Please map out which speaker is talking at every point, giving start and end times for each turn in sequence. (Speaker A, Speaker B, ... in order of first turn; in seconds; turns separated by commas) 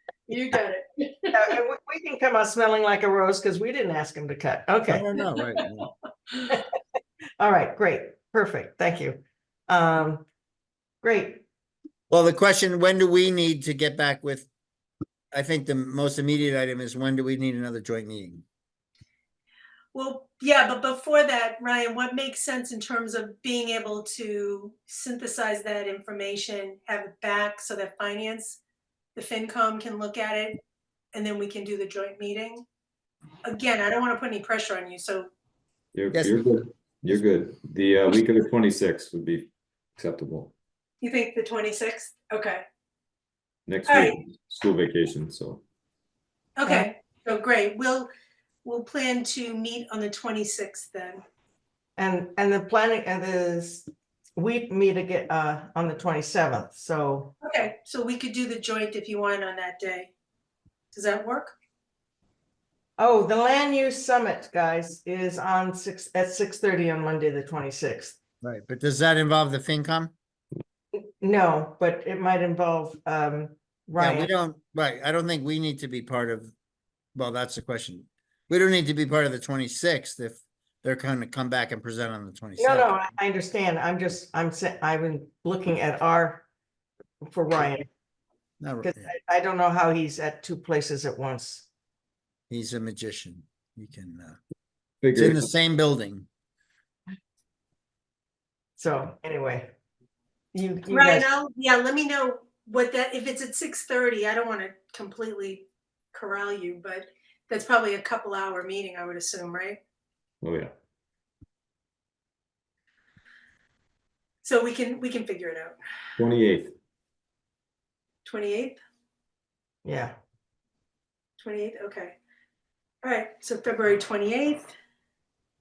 Speaker A: 0.3-1.3, Speaker B: 1.3-5.0, Speaker C: 4.9-5.9, Speaker B: 7.4-10.2, Speaker B: 11.0-11.4, Speaker C: 12.1-14.5, Speaker C: 15.3-18.4, Speaker A: 19.9-28.6, Speaker A: 29.2-30.6, Speaker A: 31.1-32.6, Speaker A: 33.5-35.3, Speaker D: 35.9-40.5, Speaker C: 36.1-36.4, Speaker A: 41.0-42.6, Speaker D: 43.7-45.6, Speaker A: 43.9-44.2, Speaker A: 46.6-48.1, Speaker A: 48.6-51.2, Speaker B: 52.0-57.3, Speaker A: 57.4-60.1, Speaker A: 60.9-61.5, Speaker B: 63.0-68.2, Speaker C: 68.4-70.1, Speaker B: 70.9-74.3, Speaker C: 74.0-76.5, Speaker C: 77.1-83.0, Speaker B: 82.6-86.4, Speaker B: 87.2-87.9, Speaker C: 88.6-89.1, Speaker B: 88.8-91.7, Speaker C: 92.5-94.4, Speaker D: 95.0-95.4, Speaker C: 95.1-96.3, Speaker B: 98.8-99.7, Speaker B: 100.5-101.3, Speaker A: 100.9-109.8, Speaker D: 110.4-110.7, Speaker A: 114.4-115.8, Speaker D: 116.2-116.7, Speaker A: 118.2-118.8, Speaker B: 119.8-120.2, Speaker A: 121.4-122.2, Speaker A: 123.0-124.7